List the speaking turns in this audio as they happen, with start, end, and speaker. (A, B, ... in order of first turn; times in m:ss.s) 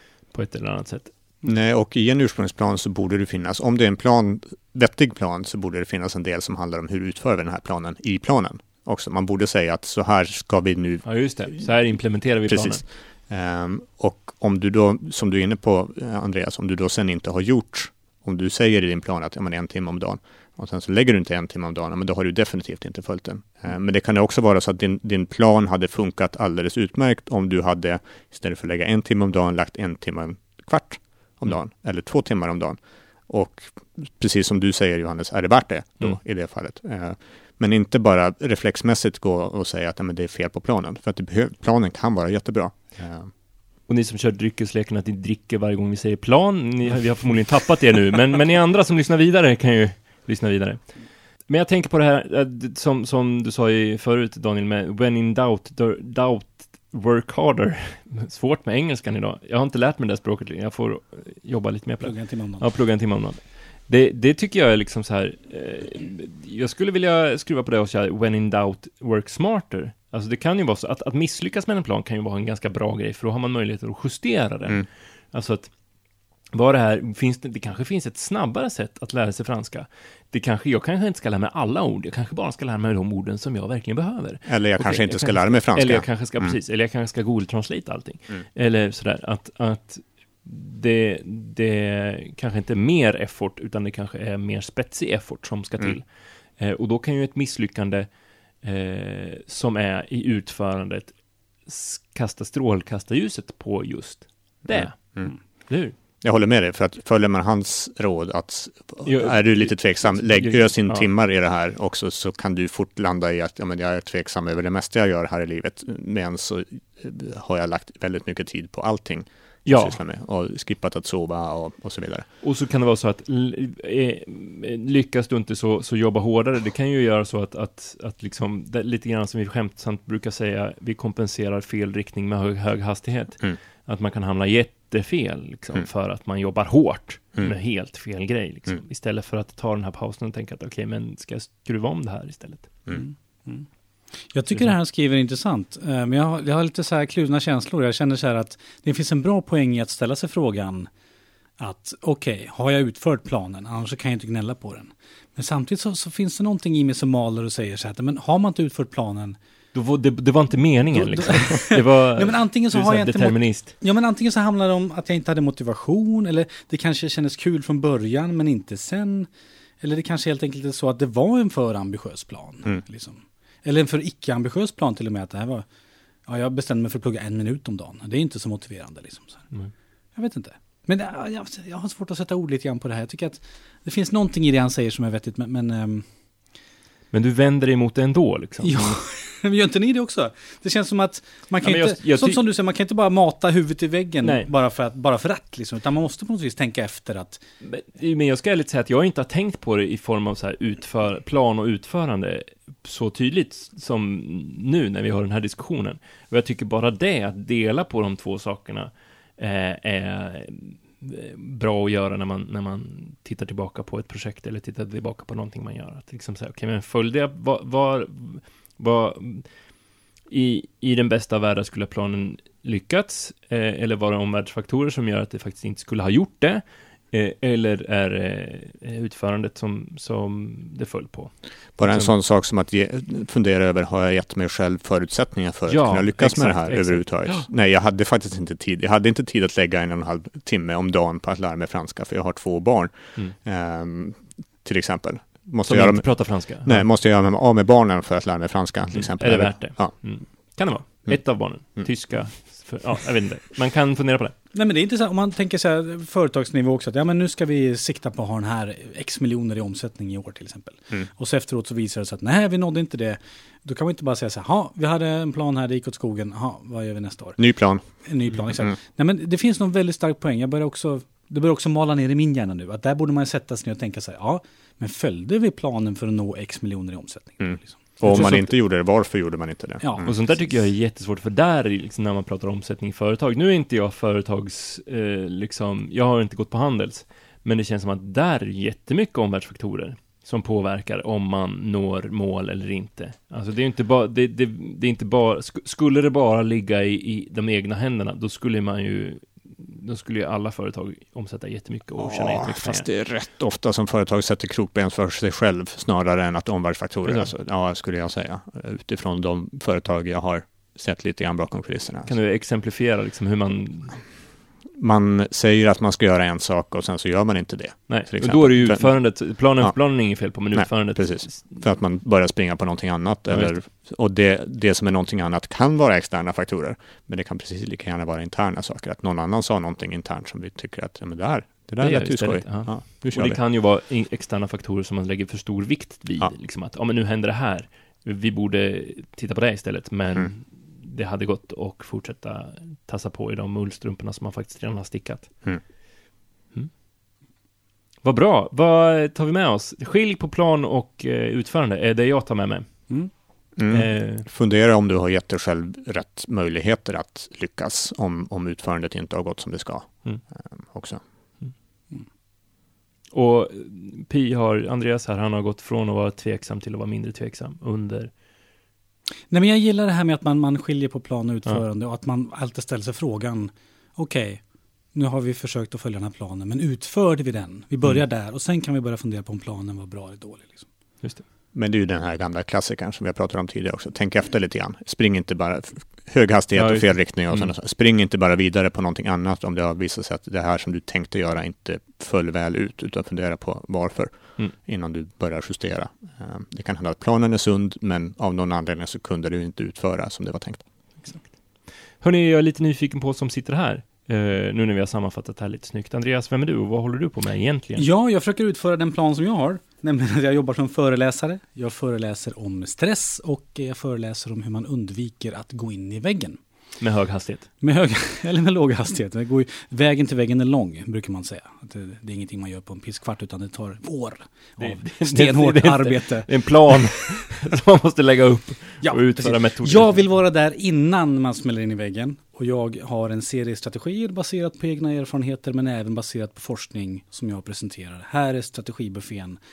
0:00.3-0:01.1 A
0:01.4-0:11.7 B
0:11.0-0:12.8 A
0:12.5-0:43.3 B
0:43.9-1:15.7 A
1:02.0-1:02.7 C
1:16.5-1:45.9 A
1:24.5-1:26.6 B
1:44.6-2:02.3 B
1:49.0-1:51.1 A
1:59.6-2:00.0 A
2:02.4-2:22.7 A
2:22.9-2:23.7 C
2:24.2-2:30.9 C
2:31.6-2:39.4 C
2:39.7-2:43.8 A
2:41.0-2:49.3 C
2:49.8-2:55.6 C
2:56.2-2:59.5 C
3:00.1-3:06.1 C
3:07.1-3:09.0 A
3:08.6-3:17.4 C
3:11.6-3:12.4 A
3:14.2-3:14.5 A
3:17.6-3:39.5 A
3:40.3-3:52.1 A
3:51.8-4:11.9 B
3:55.7-3:57.5 A
4:05.6-4:06.9 A
4:08.9-4:14.3 A
4:14.5-4:37.8 C
4:27.4-4:27.9 B
4:37.4-4:40.2 B
4:38.0-4:38.5 A
4:39.8-4:40.2 C
4:40.0-5:02.9 A
5:02.0-5:12.1 B
5:07.0-5:07.3 A
5:12.0-5:14.0 A
5:14.8-5:33.4 B
5:17.9-5:21.6 A
5:23.3-5:23.6 A
5:31.8-5:45.6 A
5:48.0-5:54.3 A
5:53.6-6:01.0 B
6:03.1-6:08.1 A
6:09.3-6:20.7 C
6:21.5-6:40.6 B
6:26.5-6:27.5 A
6:41.0-6:47.8 A
6:47.8-6:56.4 C
6:56.8-6:57.5 A
6:57.6-7:07.0 C
7:04.6-7:10.1 A
7:08.8-7:19.4 C